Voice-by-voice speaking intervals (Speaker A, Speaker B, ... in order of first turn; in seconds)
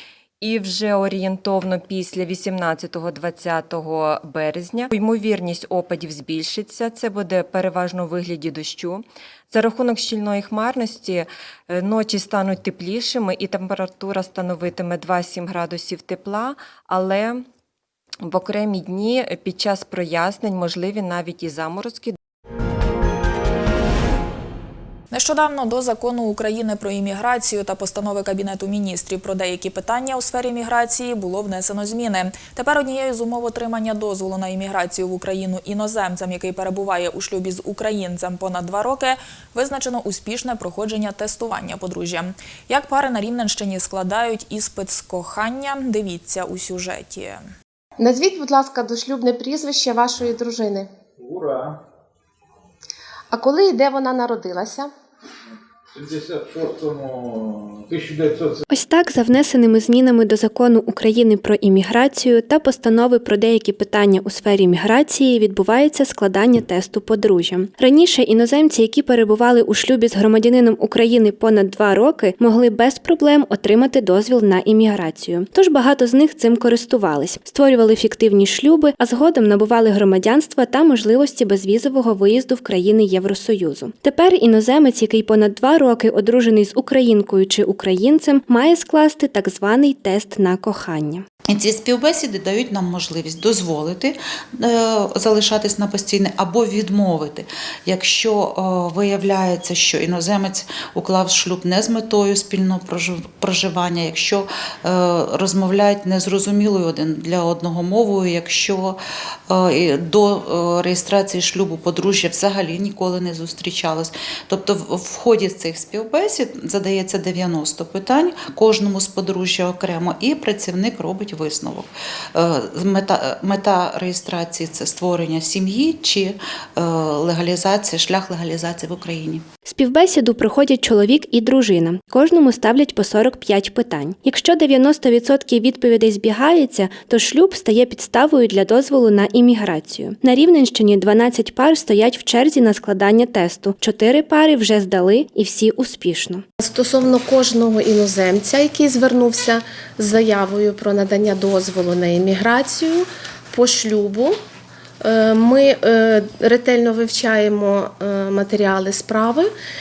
Speaker A: 0.4-17.5, 18.2-22.2
Speaker B: 25.1-47.4
Speaker C: 48.0-50.9, 53.3-54.9, 146.6-154.4, 155.0-159.5
Speaker D: 58.7-91.2, 129.7-146.4
Speaker E: 91.5-129.4